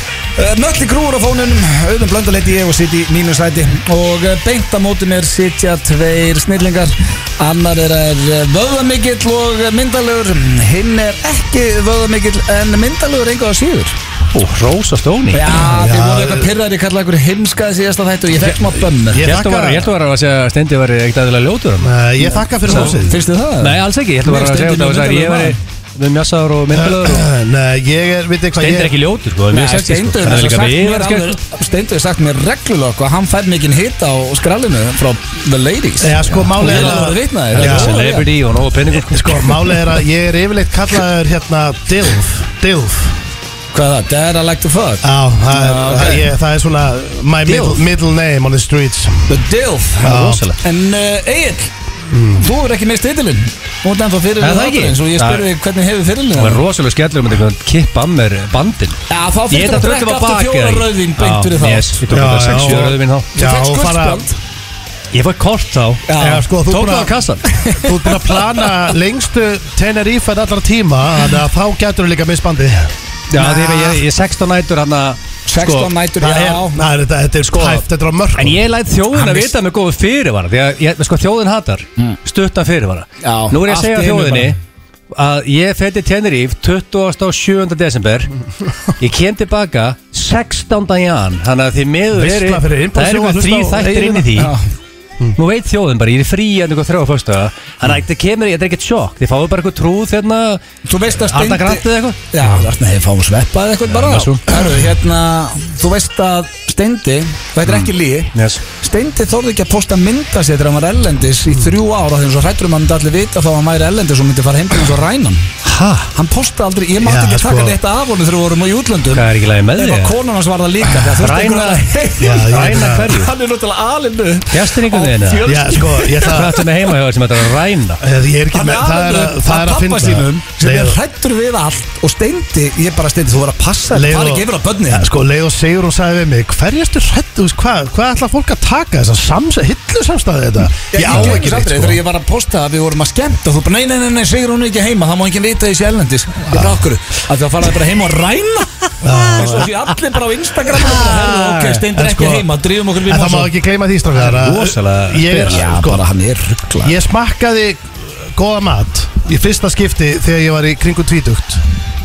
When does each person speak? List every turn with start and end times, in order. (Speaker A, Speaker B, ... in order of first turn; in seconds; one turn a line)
Speaker A: 0.4-14.0
Speaker B: 14.3-15.6
Speaker A: 15.3-19.3
Speaker C: 15.7-16.5
Speaker C: 19.0-19.9
Speaker B: 19.2-21.9
Speaker C: 21.8-23.2
Speaker A: 22.6-25.6
Speaker B: 22.6-22.9
Speaker B: 23.6-27.3
Speaker C: 26.7-29.0
Speaker B: 28.6-31.4
Speaker A: 29.5-38.3
Speaker C: 36.0-37.9
Speaker B: 36.6-39.8
Speaker C: 39.0-43.2
Speaker A: 43.7-46.3
Speaker C: 45.0-49.4
Speaker A: 47.5-47.8
Speaker A: 49.3-51.7
Speaker C: 50.0-50.5
Speaker B: 50.1-50.6
Speaker C: 52.1-52.5
Speaker A: 52.3-56.6
Speaker B: 54.4-55.5
Speaker B: 56.4-63.3
Speaker A: 59.1-62.0
Speaker C: 62.1-64.2
Speaker A: 63.3-64.4
Speaker B: 65.1-66.1
Speaker A: 66.1-66.5
Speaker C: 66.2-67.2
Speaker B: 66.7-67.5
Speaker A: 67.5-67.9
Speaker C: 67.7-74.0
Speaker B: 73.3-75.9
Speaker A: 73.3-73.7
Speaker A: 75.5-76.8
Speaker C: 76.2-78.6
Speaker B: 77.5-77.8
Speaker B: 78.4-84.6
Speaker A: 79.1-79.5
Speaker A: 83.2-84.6
Speaker B: 85.1-88.3
Speaker B: 89.0-94.5
Speaker C: 92.1-94.3
Speaker A: 94.3-94.7
Speaker B: 95.4-102.5
Speaker A: 100.9-126.6
Speaker B: 103.9-104.7
Speaker B: 107.7-108.6
Speaker B: 115.6-116.1
Speaker C: 117.0-117.8
Speaker B: 119.1-120.2
Speaker B: 120.8-123.3
Speaker C: 122.2-123.2
Speaker B: 124.5-125.5
Speaker C: 125.5-126.6
Speaker B: 126.2-128.0
Speaker C: 128.0-131.0
Speaker A: 128.5-135.1
Speaker C: 133.9-142.0
Speaker A: 140.9-153.5
Speaker C: 146.5-146.8
Speaker C: 149.0-149.7
Speaker B: 150.7-151.8
Speaker C: 151.9-152.5
Speaker C: 153.0-156.1
Speaker B: 154.2-155.6
Speaker A: 155.3-157.0
Speaker C: 156.8-161.6